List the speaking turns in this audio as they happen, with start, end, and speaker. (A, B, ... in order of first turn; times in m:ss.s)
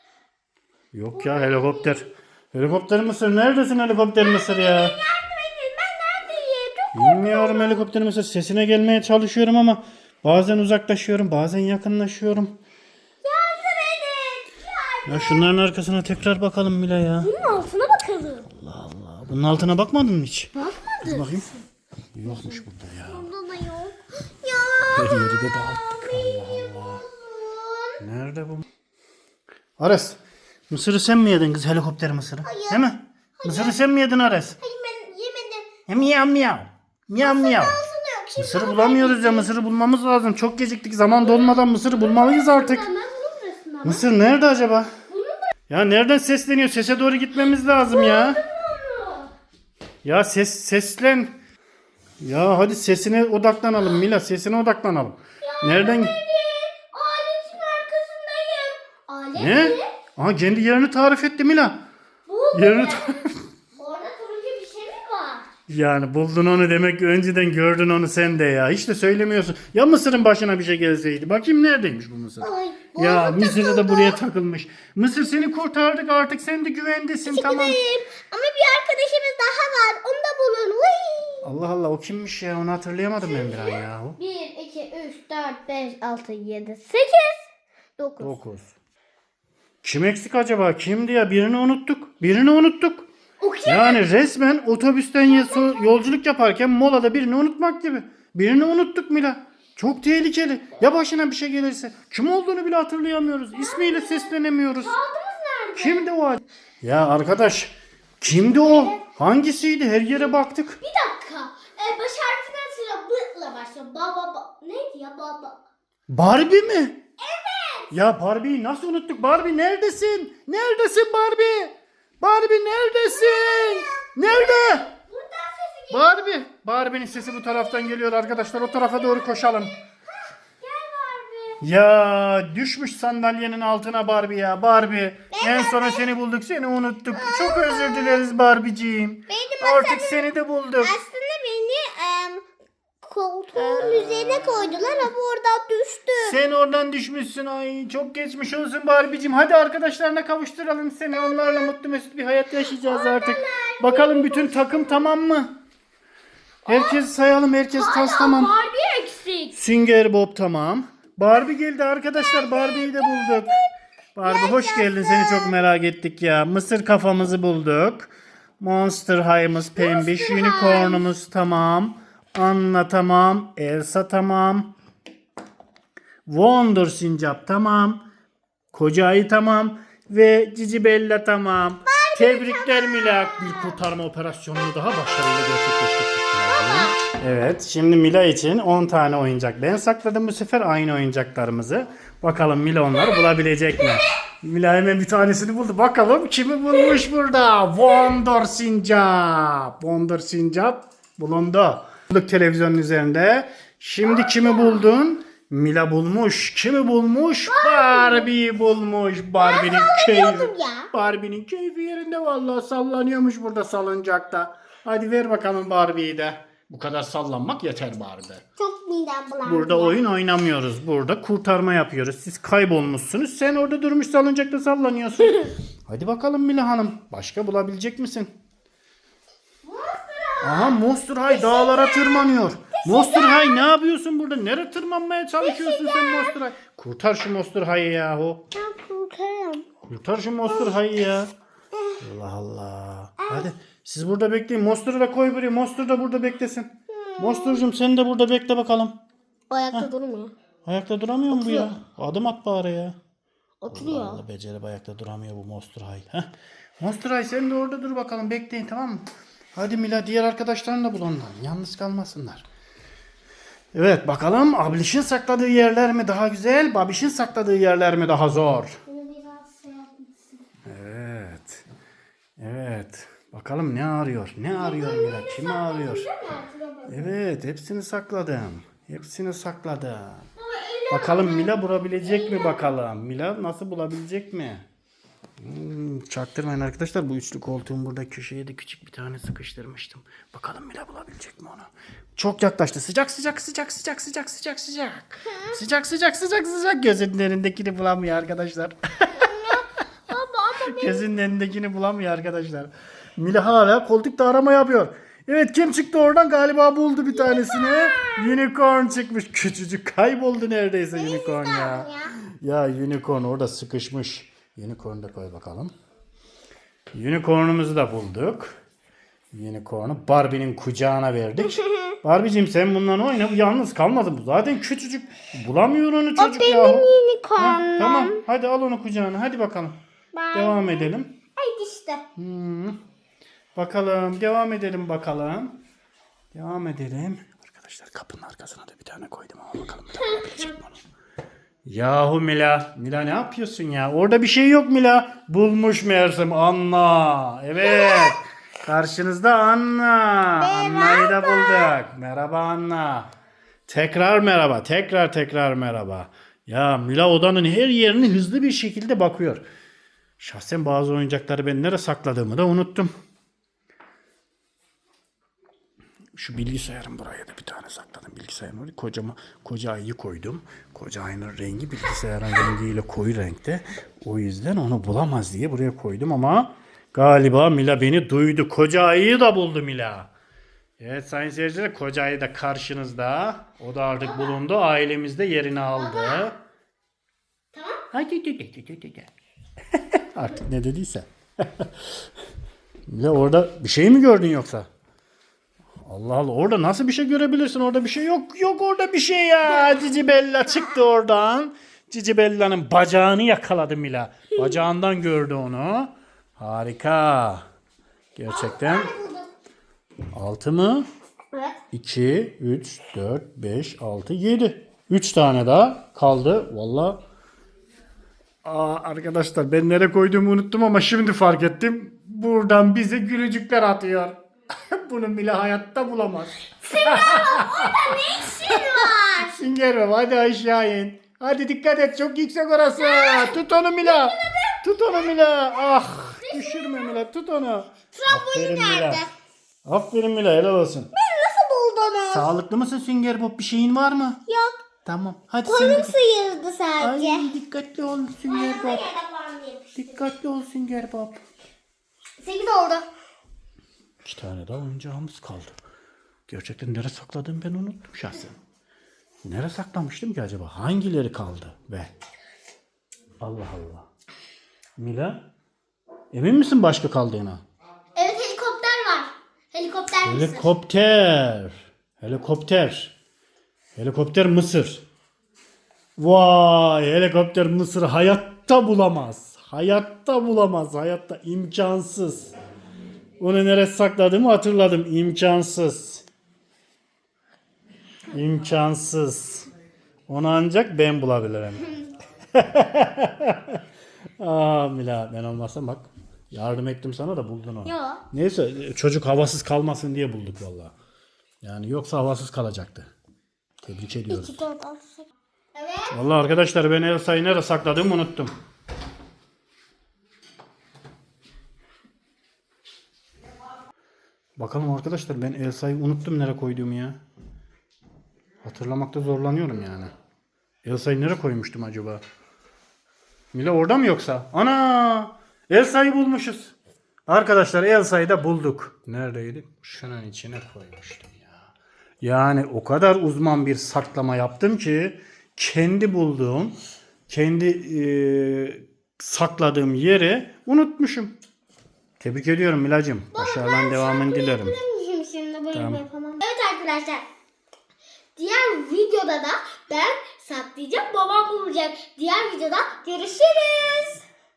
0:00.9-0:05.0 A
0:01.1-0:02.1 B
0:04.2-0:07.9 B
0:06.9-0:12.5 A
0:13.2-0:15.5 B
0:15.0-0:17.3 A
0:17.2-0:18.5 B
0:18.5-0:20.5 A
0:20.5-0:21.4 B
0:21.0-0:21.5 A
0:22.1-0:23.3 A
0:22.2-0:28.0 B
0:24.9-0:27.0 A
0:28.0-0:28.6 A
0:29.8-0:34.6 A
0:32.4-0:32.8 B
0:33.4-0:33.8 B
0:34.6-0:35.7 B
0:35.8-0:37.8 A
0:37.2-0:39.5 B
0:38.4-0:42.9 A
0:41.2-0:44.0 B
0:43.8-0:44.9 A
0:45.1-0:45.5 B
0:45.7-0:48.4 A
0:47.8-0:49.3 B
0:50.0-0:51.3 A
0:52.2-0:56.2 A
0:55.4-0:59.9 B
0:59.4-1:01.8 A
1:02.3-1:05.5 B
1:02.5-1:03.4 A
1:05.7-1:17.8 A
1:12.4-1:14.2 B
1:17.2-1:21.5 B
1:21.4-1:24.2 A
1:23.2-1:27.4 B
1:28.0-1:28.4 B
1:28.2-1:28.7 A
1:29.8-1:33.1 A
1:33.4-1:34.0 B
1:33.6-1:45.0 A
1:35.2-1:36.0 B
1:43.5-1:46.0 B
1:45.7-1:50.8 A
1:48.5-1:49.0 B
1:50.2-1:55.6 B
1:56.1-1:57.0 A
1:57.2-1:57.9 B
1:57.9-2:04.9 A
2:03.0-2:06.4 B
2:05.9-2:09.7 A
2:07.1-2:09.7 B
2:10.6-2:11.6 B
2:11.6-2:21.0 A
2:15.3-2:16.1 B
2:17.1-2:18.3 B
2:19.3-2:22.4 B
2:23.0-2:26.4 B
2:23.5-2:25.1 A
2:26.2-2:35.5 A
2:31.1-2:31.7 B
2:32.7-2:35.1 B
2:36.6-2:37.1 B
2:36.7-2:38.6 A
2:37.7-2:39.5 B
2:39.5-2:43.5 A
2:42.1-2:43.7 B
2:44.1-2:54.7 A
2:44.2-2:45.6 B
2:49.8-2:51.1 B
2:56.2-2:58.0 A
2:58.7-3:38.4 A
3:01.9-3:03.8 B
3:06.5-3:07.0 B
3:24.0-3:24.9 B
3:27.4-3:28.3 B
3:29.4-3:30.9 B
3:38.6-3:40.0 B
3:39.4-3:48.3 A
3:49.6-3:53.7 B
3:50.4-3:58.4 A
3:55.4-3:56.4 B
3:58.5-3:59.7 B
3:59.8-4:01.3 A
4:00.5-4:00.8 B
4:01.8-4:02.0 B
4:02.0-4:09.0 A
4:03.2-4:03.5 B
4:06.9-4:07.6 B
4:09.5-4:10.3 B
4:10.6-4:13.0 A
4:11.3-4:11.8 B
4:13.6-4:14.2 B
4:13.7-4:22.5 A
4:23.7-4:28.8 A
4:28.8-4:30.4 B
4:30.6-4:31.6 A
4:32.4-4:36.1 A
4:34.5-4:37.2 B
4:36.8-4:40.3 A
4:40.4-4:42.8 B
4:40.9-4:44.6 A
4:45.4-4:59.5 A
4:59.2-5:01.1 B
5:00.6-5:15.7 A
5:07.1-5:08.4 B
5:10.9-5:12.1 B
5:16.9-5:18.6 A
5:19.3-5:29.8 A
5:21.4-5:22.0 B
5:26.2-5:28.2 B
5:30.1-5:32.0 B
5:30.3-5:31.2 A
5:32.2-5:32.8 A
5:33.5-5:35.6 A
5:36.3-5:40.8 A
5:40.0-5:40.5 B
5:41.6-5:53.1 A
5:47.6-5:48.2 B
5:50.4-5:51.8 B
5:53.7-5:59.4 A
6:00.2-6:02.9 A
6:06.1-6:20.1 A
6:20.8-6:26.4 A
6:24.0-6:24.4 B
6:25.7-6:26.3 B
6:27.5-6:27.8 B
6:27.9-6:29.1 A
6:29.7-6:31.8 A
6:32.9-6:34.7 A
6:35.8-6:47.4 A
6:48.2-6:48.9 A
6:48.3-6:49.3 B
6:50.1-6:50.8 A
6:51.3-6:51.6 B
6:51.7-6:57.0 A
6:58.4-7:04.2 A
7:04.7-7:19.0 A
7:06.7-7:09.4 B
7:12.8-7:15.6 B
7:16.2-7:17.0 B
7:17.9-7:19.1 B
7:19.6-7:20.9 A
7:20.9-7:22.3 B
7:22.1-7:24.2 A
7:24.2-7:24.7 B
7:24.8-7:25.9 A
7:25.4-7:27.3 B
7:26.8-7:28.9 A
7:28.3-7:30.0 B
7:29.7-7:31.2 A
7:32.2-7:32.9 B
7:34.0-7:35.6 A
7:36.3-7:38.4 A
7:39.2-7:41.9 A
7:43.2-7:43.9 A
7:44.8-7:45.3 A
7:46.1-7:47.4 A
7:47.9-7:50.5 B
7:50.0-7:52.9 A
7:53.8-7:54.8 A
7:56.0-8:02.3 A
8:03.2-8:06.0 A
8:08.1-8:09.5 A
8:10.1-8:11.7 A
8:12.3-8:13.6 A
8:14.2-8:20.7 A
8:17.6-8:18.0 B
8:21.4-8:22.9 A
8:23.6-8:24.4 A
8:24.1-8:26.0 B
8:25.9-8:28.3 A
8:34.4-8:37.0 A
8:38.4-8:39.9 A
8:40.6-8:42.0 A
8:43.3-8:46.5 A
8:47.1-8:56.6 A
8:57.1-9:01.1 A
9:02.0-9:04.6 A
9:03.1-9:07.0 B
9:05.5-9:05.8 A
9:08.2-9:14.0 B